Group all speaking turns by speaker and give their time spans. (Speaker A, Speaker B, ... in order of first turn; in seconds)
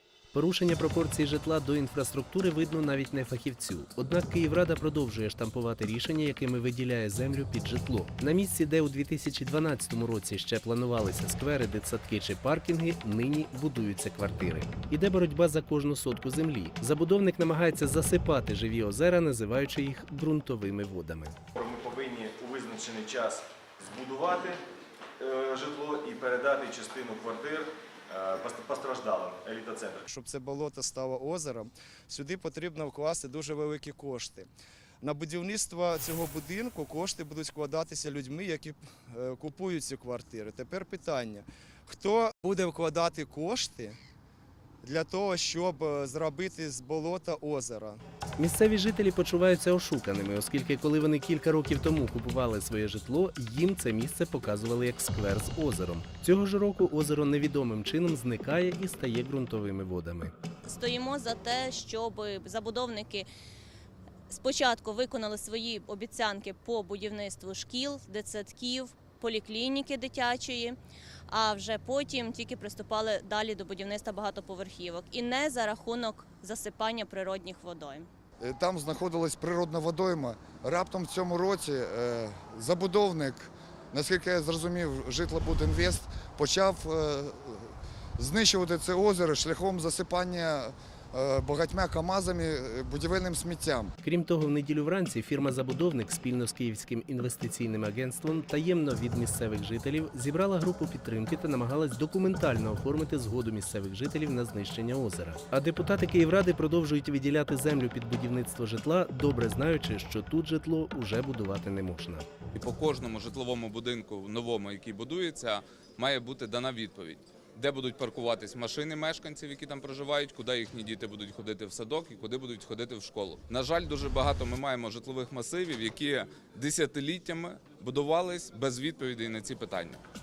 Speaker A: 0.3-21.3, 48.4-60.3, 94.0-112.3
Speaker B: 21.5-24.6, 25.2-30.1
Speaker C: 30.1-34.5, 35.0-44.0, 44.8-48.0
Speaker D: 60.6-63.3, 64.3-70.8, 71.3-78.1
Speaker E: 78.4-93.9
Speaker F: 112.5-130.0